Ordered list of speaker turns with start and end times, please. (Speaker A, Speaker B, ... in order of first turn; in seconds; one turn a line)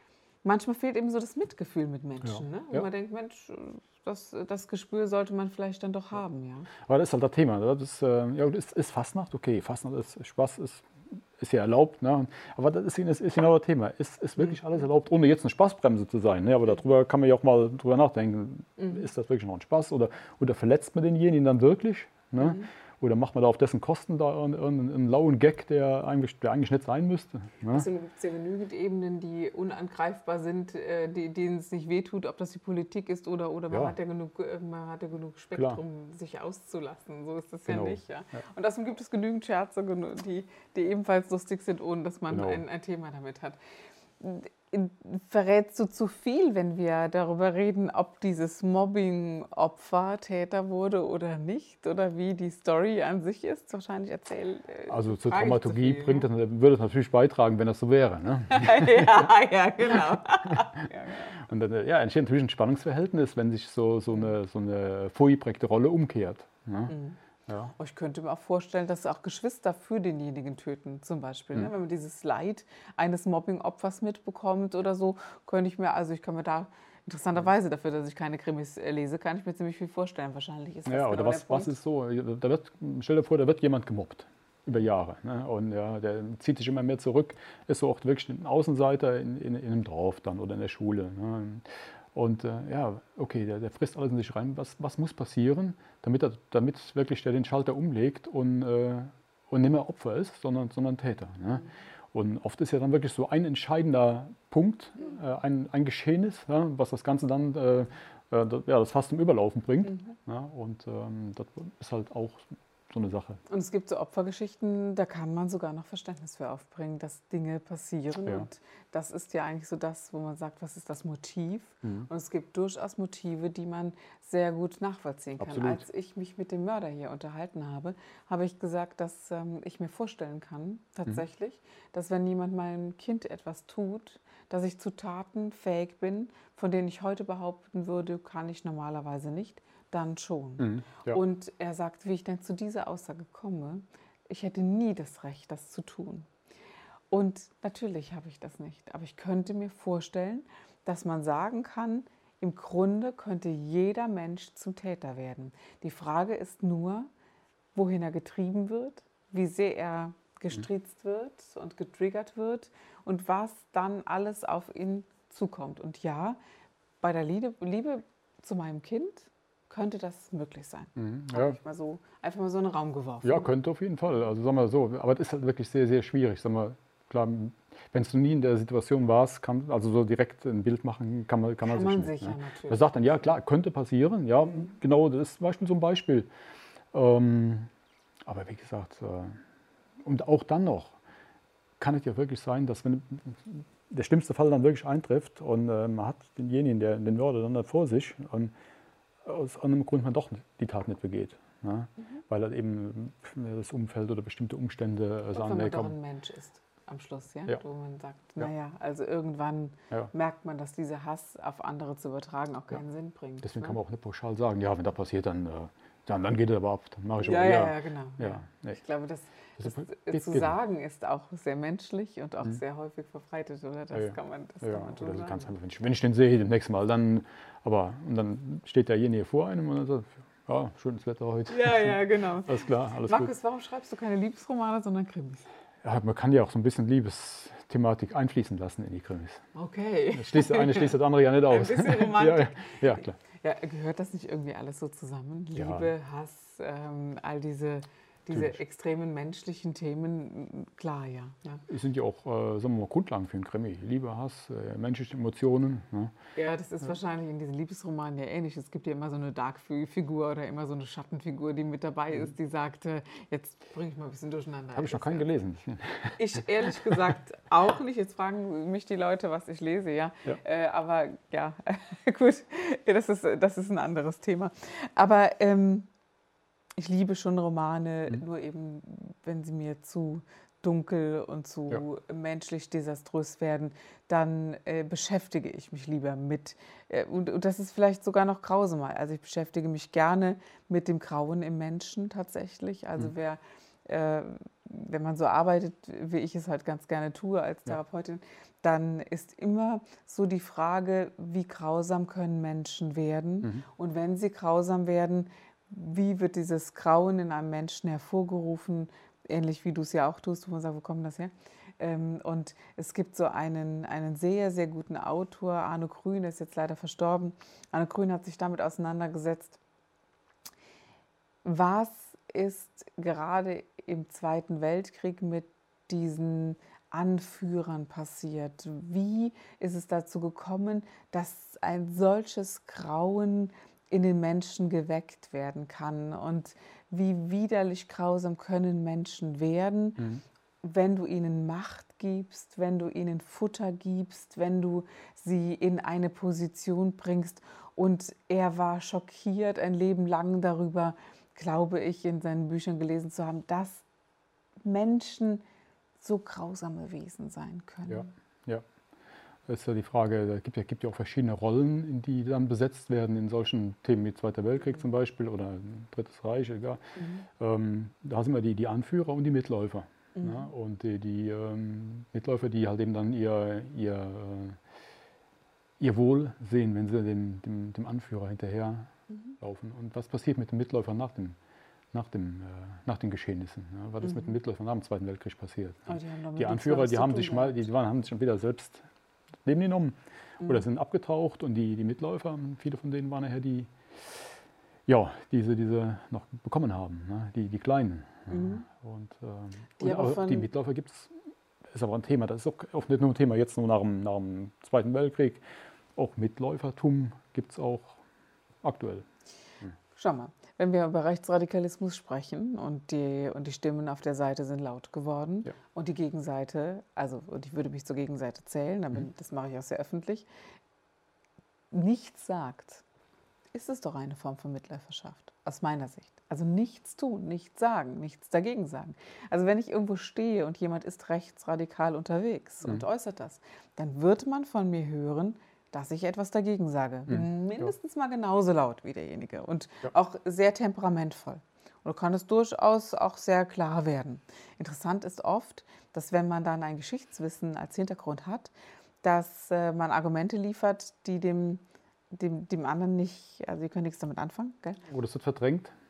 Speaker A: 0.4-6.7
Speaker B: 2.2-2.9
Speaker B: 6.8-27.9
Speaker A: 18.8-19.0
Speaker A: 22.4-22.7
Speaker A: 27.7-43.6
Speaker B: 35.5-35.8
Speaker B: 37.7-38.0
Speaker B: 42.3-42.6
Speaker A: 44.2-56.3
Speaker B: 54.9-59.3
Speaker A: 58.5-61.4
Speaker B: 60.5-60.8
Speaker B: 61.4-66.9
Speaker A: 66.9-67.2
Speaker B: 67.5-67.7
Speaker A: 67.7-81.8
Speaker B: 80.9-113.4
Speaker A: 113.5-146.3
Speaker B: 121.8-122.1
Speaker B: 125.4-125.8
Speaker B: 140.6-141.2
Speaker A: 147.1-157.1
Speaker A: 157.7-166.4
Speaker A: 167.0-173.5
Speaker B: 170.9-171.6
Speaker B: 173.2-186.3
Speaker A: 181.6-183.3
Speaker B: 186.9-187.7
Speaker B: 188.2-189.4
Speaker B: 190.0-190.9
Speaker B: 191.8-198.5
Speaker B: 199.2-205.9
Speaker A: 205.3-213.8
Speaker B: 213.4-218.8
Speaker A: 217.2-225.5
Speaker B: 219.6-220.5
Speaker B: 223.9-233.3
Speaker A: 231.5-235.5
Speaker B: 235.8-239.4
Speaker A: 239.5-242.8
Speaker B: 240.1-243.2
Speaker A: 243.3-251.6
Speaker B: 245.6-245.9
Speaker B: 251.7-256.1
Speaker A: 256.3-265.3
Speaker B: 264.8-266.9
Speaker A: 266.1-275.9
Speaker A: 276.8-319.6
Speaker A: 321.4-340.1
Speaker A: 340.6-353.9
Speaker A: 354.6-355.4
Speaker A: 356.0-358.1
Speaker B: 357.9-358.6
Speaker B: 359.5-374.6
Speaker A: 366.9-367.2
Speaker A: 370.1-370.4
Speaker B: 375.8-381.4
Speaker B: 381.9-388.8
Speaker A: 385.9-387.6
Speaker B: 389.4-394.2
Speaker A: 390.4-390.6
Speaker B: 394.9-401.1
Speaker A: 398.3-398.6
Speaker A: 399.8-400.5
Speaker B: 401.7-405.4
Speaker B: 405.9-408.0
Speaker B: 408.6-409.1
Speaker A: 409.9-420.3
Speaker A: 421.7-422.8
Speaker A: 423.5-448.5
Speaker A: 449.0-454.8
Speaker B: 454.9-455.7